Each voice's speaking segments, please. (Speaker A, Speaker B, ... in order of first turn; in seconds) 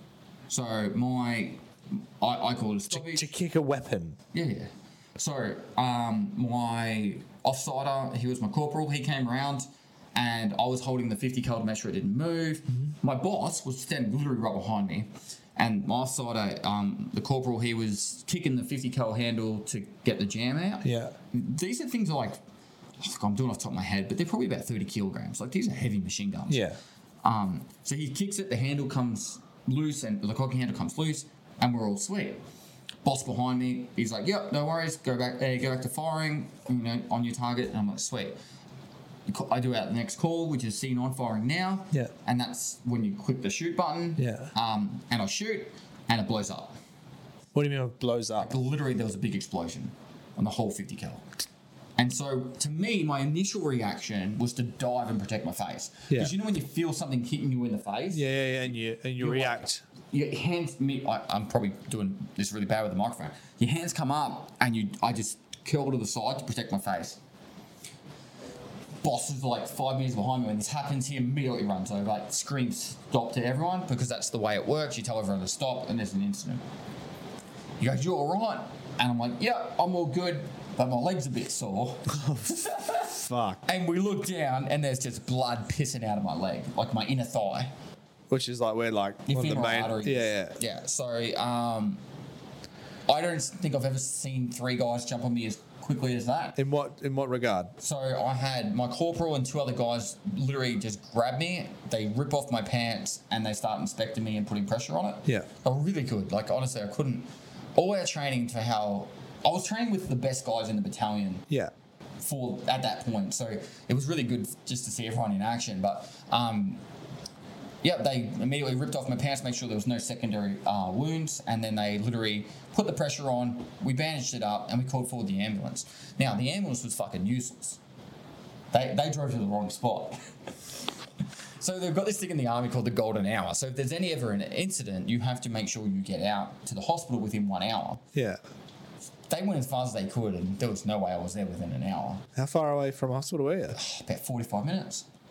Speaker A: 0.5-3.3, 4.3-22.4, 23.0-26.7, 27.2-32.4, 33.0-38.4, 39.3-46.7, 48.4-51.2, 52.0-58.2, 59.2-67.2, 69.0-76.6, 77.8-87.7, 89.2-92.0, 93.1-96.6, 97.8-111.5, 112.2-116.8, 117.8-127.8, 128.7-130.2, 131.6-138.0, 139.3-142.2, 143.7-145.1
Speaker B: 2.9-4.2, 20.8-21.1, 26.5-26.8, 44.2-44.5, 47.5-48.6, 58.1-59.8, 82.1-83.6, 88.3-90.6, 96.5-97.7, 138.1-138.4, 142.3-143.8